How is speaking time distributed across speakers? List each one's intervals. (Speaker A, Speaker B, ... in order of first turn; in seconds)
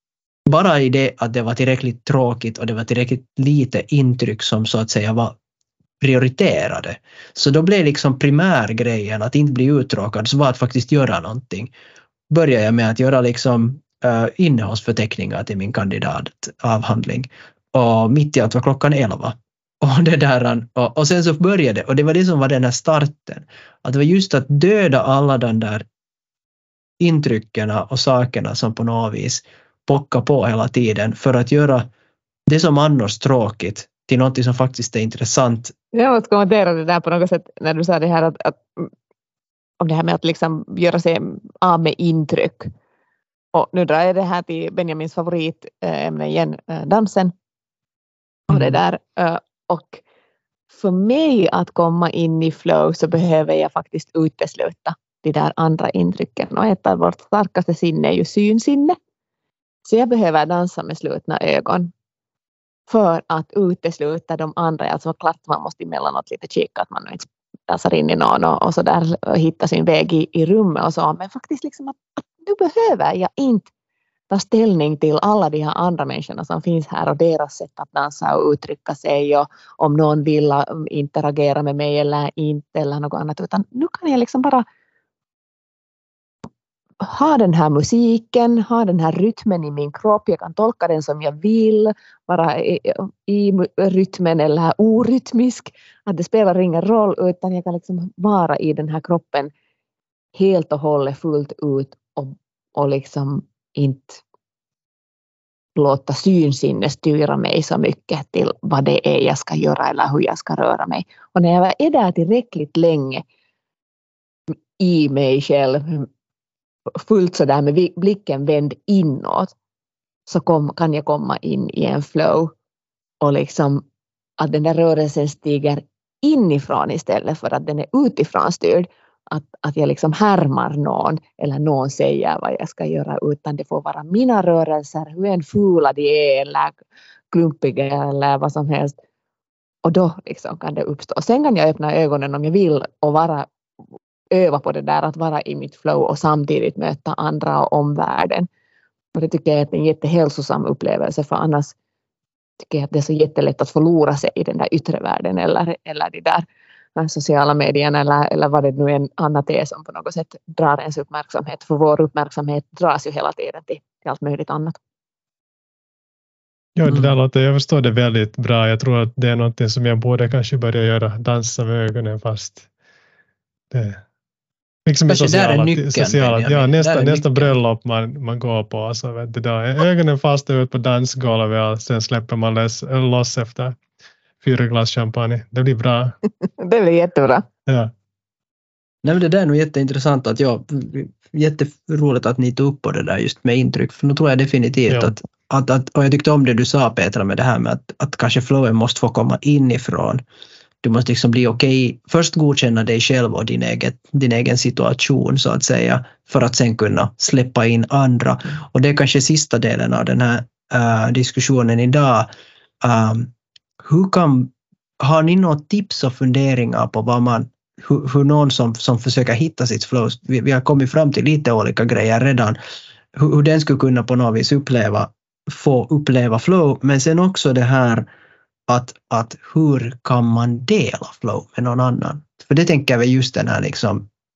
Speaker A: 0.5-5.4, 6.0-11.7, 12.3-25.9, 27.0-31.9, 32.5-35.7, 166.9-167.1, 175.1-177.6, 189.0-200.2, 200.8-212.3, 212.8-222.6, 223.1-228.1, 228.7-234.1
Speaker B: 35.9-38.9, 39.8-42.7, 43.5-47.3, 48.5-50.0, 50.7-59.0, 59.9-61.9, 62.9-73.7, 74.3-84.7, 87.0-99.5, 100.3-104.2, 105.8-113.2, 114.5-116.1, 116.9-119.5, 120.3-122.5, 123.2-123.8, 124.4-136.8, 137.3-139.0, 139.8-143.5, 144.3-148.5, 149.1-151.8, 152.6-156.4, 157.0-164.8, 186.6-187.5
Speaker C: 166.8-172.7, 173.7-174.0, 174.9-183.8, 184.4-186.2, 187.7-187.9